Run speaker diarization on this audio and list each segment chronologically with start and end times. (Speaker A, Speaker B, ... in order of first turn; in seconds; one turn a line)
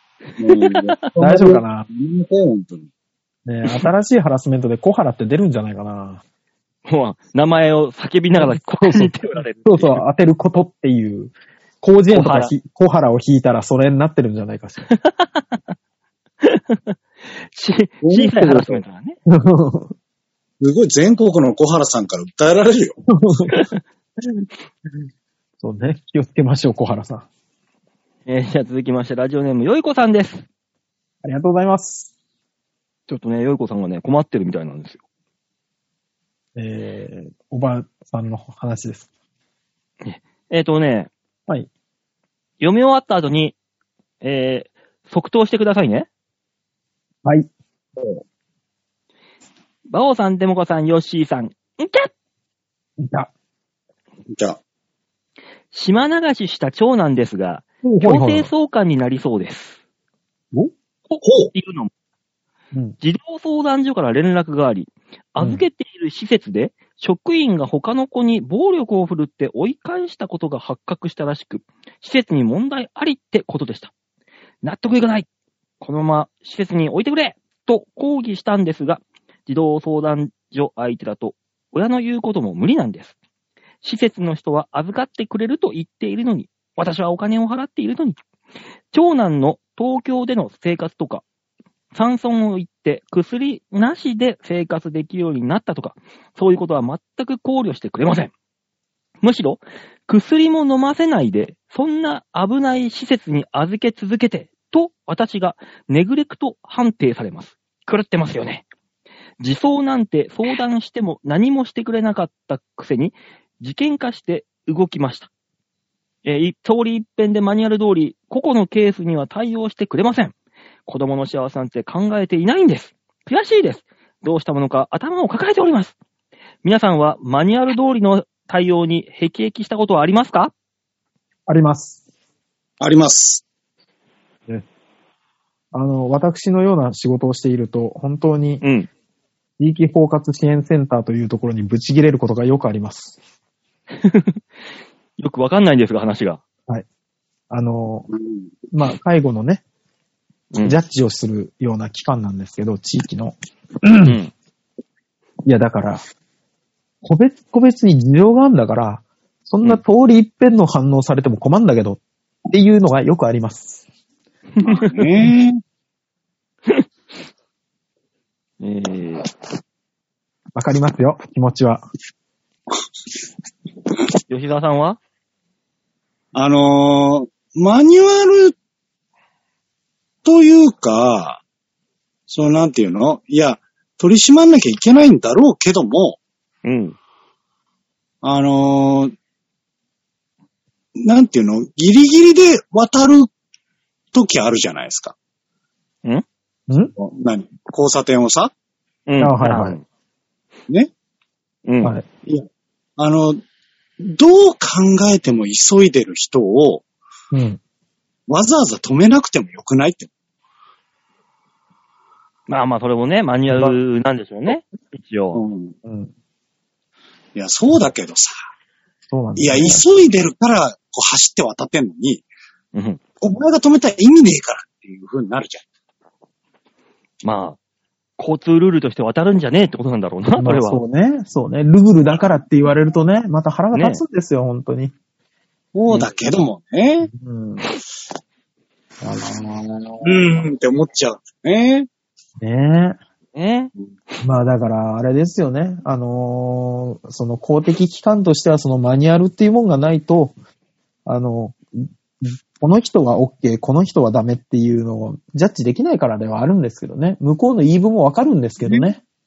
Speaker A: 0.4-2.9
Speaker B: 0.5-0.9
Speaker C: 1.2-1.9
Speaker C: 3.5-6.2
Speaker B: 6.9-10.0
Speaker C: 8.4-14.9
Speaker B: 12.1-12.5
Speaker B: 14.9-15.6
Speaker B: 16.4-17.0
Speaker B: 17.5-19.2
Speaker A: 18.0-18.8
Speaker C: 19.3-19.9
Speaker A: 20.6-23.0
Speaker C: 23.1-23.6
Speaker B: 23.5-23.8
Speaker C: 25.6-27.3
Speaker B: 28.3-30.4
Speaker C: 31.2-32.1
Speaker B: 33.1-35.0
Speaker C: 36.6-39.1
Speaker B: 40.0-41.1
Speaker B: 42.6-43.5
Speaker B: 44.2-46.1
Speaker C: 47.2-47.5
Speaker B: 49.9-52.1
Speaker C: 53.0-53.3
Speaker A: 54.3-54.6
Speaker B: 55.7-59.8
Speaker C: 57.8-58.5
Speaker B: 61.1-61.9
Speaker A: 61.2-61.5
Speaker B: 63.0-73.9
Speaker C: 65.4-65.6
Speaker B: 74.6-75.3
Speaker B: 75.8-83.2
Speaker B: 83.8-88.2
Speaker B: 88.9-91.2
Speaker B: 91.9-98.3
Speaker B: 99.2-108.7
Speaker B: 109.4-115.3
Speaker B: 116.2-120.3
Speaker B: 120.9-126.0
Speaker B: 126.6-130.5
Speaker C: 131.5-132.0
Speaker A: 132.8-133.4
Speaker C: 135.7-138.6
Speaker B: 138.6-138.9
Speaker C: 139.6-143.2
Speaker B: 144.0-144.4
Speaker B: 145.2-146.4
Speaker C: 147.5-148.1
Speaker A: 148.1-148.4
Speaker C: 148.7-149.6
Speaker C: 150.6-154.2
Speaker B: 154.0-154.3
Speaker C: 155.4-156.0
Speaker C: 157.0-163.8
Speaker B: 164.6-165.2
Speaker A: 164.6-165.6
Speaker B: 168.6-169.3
Speaker C: 170.5-171.8
Speaker B: 174.3-175.0
Speaker A: 176.3-178.6
Speaker A: 180.2-181.4
Speaker A: 182.3-186.2
Speaker B: 186.6-187.0
Speaker A: 188.2-189.1
Speaker A: 191.0-193.3
Speaker A: 194.1-195.2
Speaker A: 197.0-198.5
Speaker B: 199.1-199.8
Speaker C: 199.2-199.8
Speaker B: 201.7-201.9
Speaker A: 203.0-203.4
Speaker A: 204.0-206.8
Speaker C: 207.3-207.6
Speaker A: 208.3-210.1
Speaker B: 212.5-215.4
Speaker C: 213.5-213.8
Speaker A: 215.3-215.8
Speaker C: 215.8-216.1
Speaker A: 217.3-218.3
Speaker C: 219.1-219.8
Speaker A: 219.4-222.2
Speaker B: 222.7-223.0
Speaker A: 223.2-225.6
Speaker B: 227.2-227.6
Speaker B: 228.2-230.8
Speaker C: 230.4-234.9
Speaker B: 233.7-234.0
Speaker A: 235.8-237.1
Speaker C: 237.0-237.7
Speaker C: 239.0-240.4
Speaker A: 240.0-241.9
Speaker C: 242.4-243.0
Speaker B: 243.3-243.7
Speaker C: 244.2-250.3
Speaker C: 251.1-259.0